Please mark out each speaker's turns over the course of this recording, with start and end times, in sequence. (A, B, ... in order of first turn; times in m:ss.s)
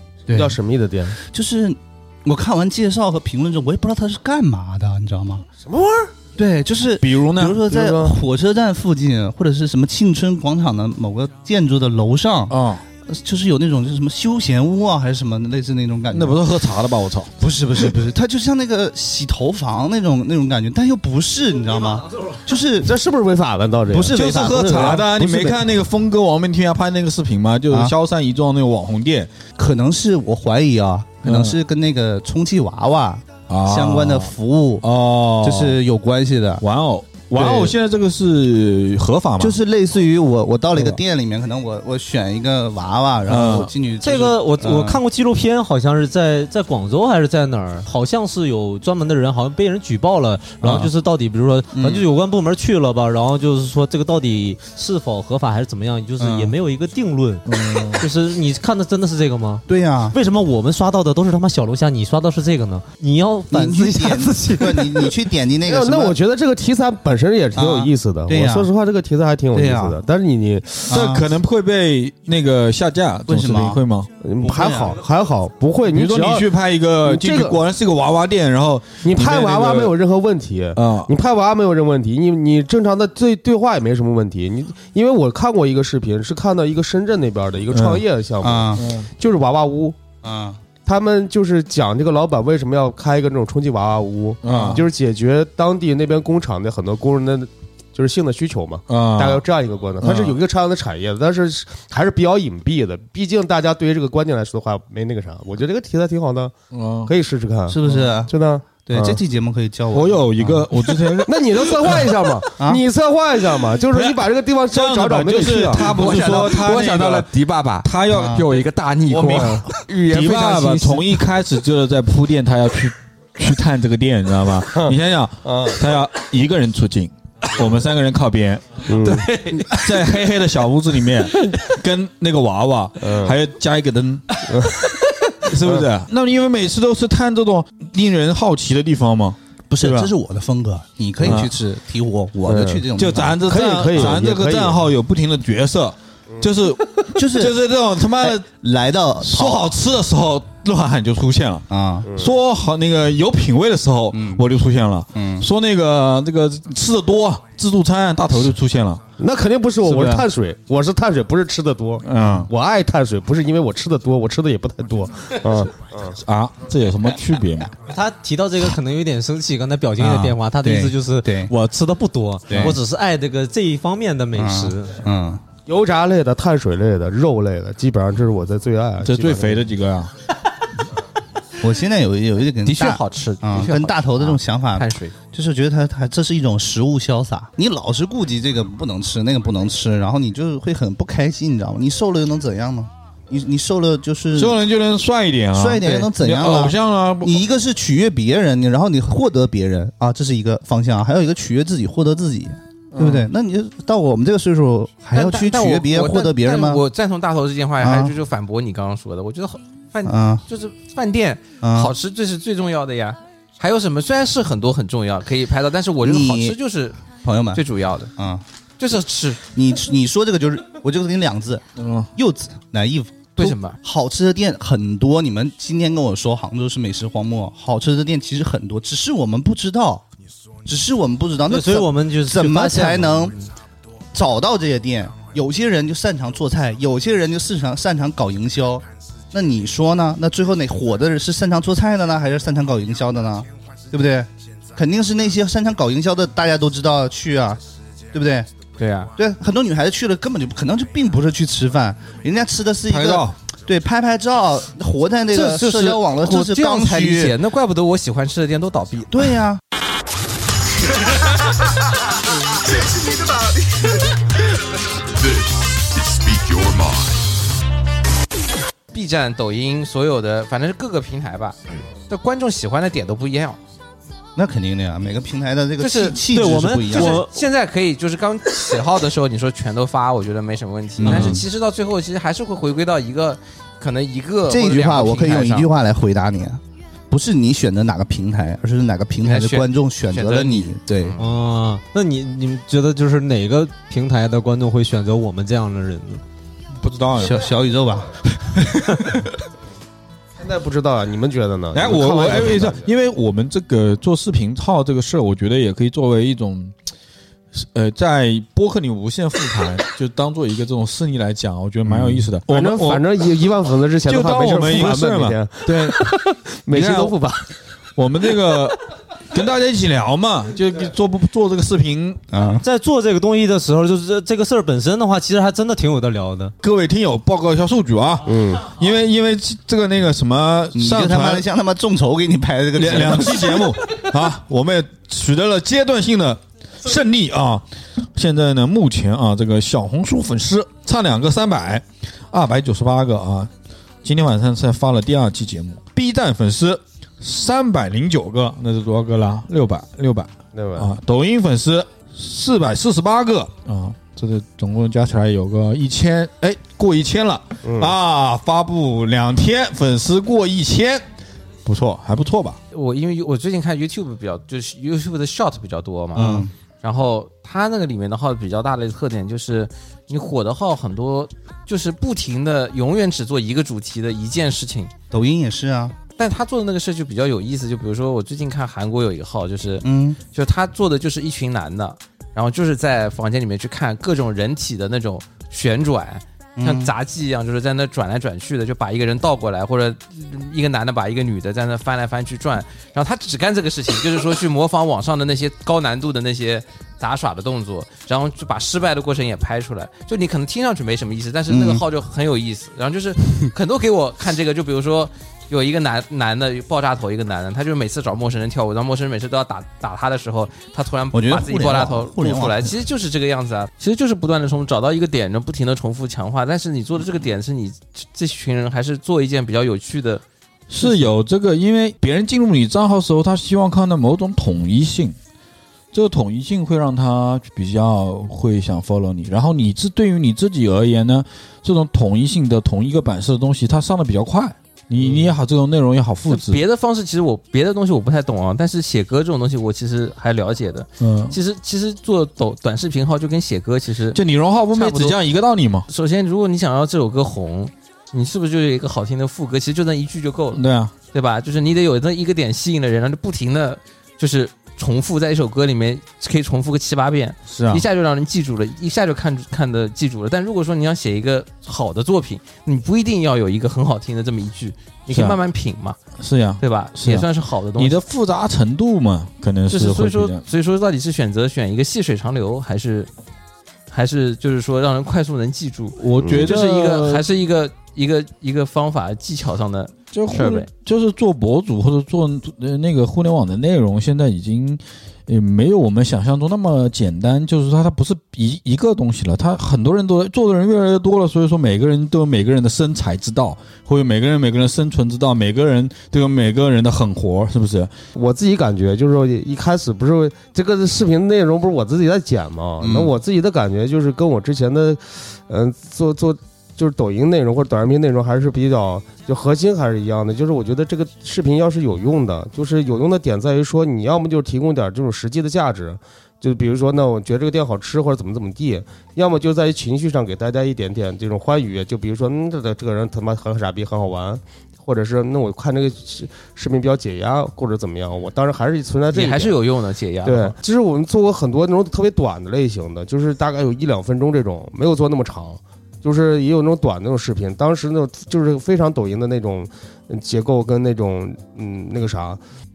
0:00.3-0:00.6 A
0:00.3-0:01.2 B
0:01.2-0:05.5 A
0:05.6-0:06.1 B
0:06.4-0:12.5 A
0:07.0-0:07.6 C
0:07.7-0:08.2 B
0:12.5-0:12.8 C
0:13.1-0:16.4 A
0:16.1-0:17.3 C
0:17.4-0:22.9 A
0:22.8-0:24.2 B
0:23.9-0:25.1 A
0:24.1-0:29.3 C
0:24.9-0:25.6 B
0:29.6-0:34.8 A
0:31.2-0:31.6 C
0:33.5-0:35.8 C
0:35.4-0:36.6 A
0:36.6-0:39.6 C
0:37.4-0:37.7 A
0:39.4-0:45.0 A
0:43.3-0:43.7 C
0:44.0-1:05.1 D
0:50.6-0:50.9 A
0:51.7-0:52.0 A
0:56.2-0:56.5 A
0:57.5-0:58.0 C
0:59.7-1:00.2 A
1:03.5-1:06.2 A
1:05.6-1:10.9 B
1:07.5-1:08.7 A
1:09.5-1:10.0 A
1:10.9-1:14.1 C
1:10.9-1:11.3 A
1:13.3-1:13.8 A
1:14.2-1:16.5 B
1:14.4-1:15.0 A
1:15.8-1:19.9 C
1:17.0-1:17.6 B
1:19.0-1:30.0 B
1:20.8-1:21.1 C
1:27.7-1:28.0 C
1:28.4-1:28.9 A
1:28.8-1:29.1 C
1:30.2-1:30.6 A
1:30.8-1:46.5 B
1:34.4-1:34.8 C
1:38.9-1:39.4 C
1:40.0-1:40.4 C
1:46.7-1:47.1 C
1:47.0-1:49.2 B
1:47.7-1:50.6 A
1:49.9-1:52.1 C
1:51.2-1:56.0 B
1:52.6-1:52.8 A
1:53.9-1:57.3 C
1:55.8-2:01.2 E
1:57.8-2:14.4 C
1:58.1-1:58.4 A
1:59.3-1:59.6 B
2:05.4-2:05.8 B
2:08.9-2:09.3 B
2:09.0-2:10.0 E
2:13.0-2:13.3 B
2:14.5-2:14.8 B
2:15.4-2:20.1 C
2:19.7-2:24.2 A
2:21.2-2:21.5 C
2:22.5-2:22.8 B
2:22.9-2:28.4 C
2:23.4-2:24.8 B
2:27.1-2:27.6 A
2:28.2-2:29.7 A
2:29.2-2:39.0 C
2:31.7-2:32.1 A
2:34.1-2:34.4 A
2:35.1-2:35.4 A
2:39.2-2:46.2 B
2:39.8-2:40.2 C
2:42.0-2:42.5 C
2:46.2-2:47.7 C
2:47.9-2:55.0 D
2:50.0-2:51.5 A
2:52.5-2:52.8 A
2:54.3-2:55.4 A
2:55.6-2:59.6 B
2:59.0-3:00.1 C
3:01.6-3:14.6 A
3:02.6-3:05.1 E
3:14.3-3:17.4 C
3:15.5-3:26.8 A
3:22.9-3:23.3 C
3:25.1-3:37.0 E
3:27.8-3:28.1 A
3:30.0-3:30.4 A
3:31.6-3:31.9 A
3:36.0-3:36.6 A
3:37.2-3:37.6 A
3:37.5-3:38.1 E
3:38.2-3:38.4 A
3:38.8-3:39.4 E
3:39.5-3:50.0 A
3:41.8-3:42.1 C
3:43.4-3:43.8 E
3:50.6-3:53.3 A
3:51.5-3:53.3 D
3:54.1-4:07.6 A
4:08.1-4:08.5 A
4:08.8-4:09.1 E
4:09.2-4:17.3 A
4:12.9-4:13.4 C
4:15.3-4:19.3 E
4:19.1-4:19.6 A
4:28.9-4:33.6 E
4:34.4-4:37.2 A
4:35.8-4:36.2 E
4:36.3-4:37.3 D
4:36.9-4:45.7 E
4:41.0-4:41.4 A
4:41.1-4:41.3 C
4:44.5-4:51.2 A
4:49.2-4:51.2 E
4:51.2-4:56.2 D
4:56.8-4:57.5 C
4:57.2-4:59.3 A
5:00.4-5:02.8 B
5:01.7-5:06.7 C
5:07.5-5:13.1 C
5:11.9-5:12.2 A
5:12.4-5:17.5 B
5:14.0-5:16.0 C
5:16.7-5:17.2 C
5:18.0-5:18.8 C
5:19.3-5:22.2 C
5:22.3-5:22.6 A
5:22.6-5:26.5 D
5:26.6-5:31.4 C
5:28.2-5:28.6 B
5:30.7-5:33.8 A
5:32.7-5:43.5 C
5:44.0-6:01.0 C
5:50.5-5:50.9 B
5:57.6-5:57.9 B
6:01.6-6:02.6 C
6:02.7-6:14.9 E
6:06.1-6:06.5 A
6:15.1-6:16.0 A
6:16.2-7:00.2 E
6:19.8-6:20.2 A
6:26.6-6:26.9 A
6:41.5-6:41.8 A
6:51.1-6:52.8 A
7:00.7-7:05.2 C
7:00.8-7:01.1 E
7:05.9-7:16.6 C
7:16.3-7:24.2 E
7:21.0-7:21.4 C
7:24.1-7:25.9 C
7:24.7-7:25.2 E
7:25.9-7:46.0 E
7:30.5-7:30.9 C
7:37.5-7:37.8 C
7:45.1-7:45.4 C
7:46.2-7:50.4 C
7:46.6-7:48.0 E
7:49.7-7:53.1 E
7:53.9-8:00.7 E
7:56.0-7:57.2 C
7:56.2-7:56.4 B
8:00.1-8:17.9 C
8:18.1-8:49.6 B
8:22.8-8:23.2 A
8:49.1-8:50.5 E
8:50.2-9:02.4 B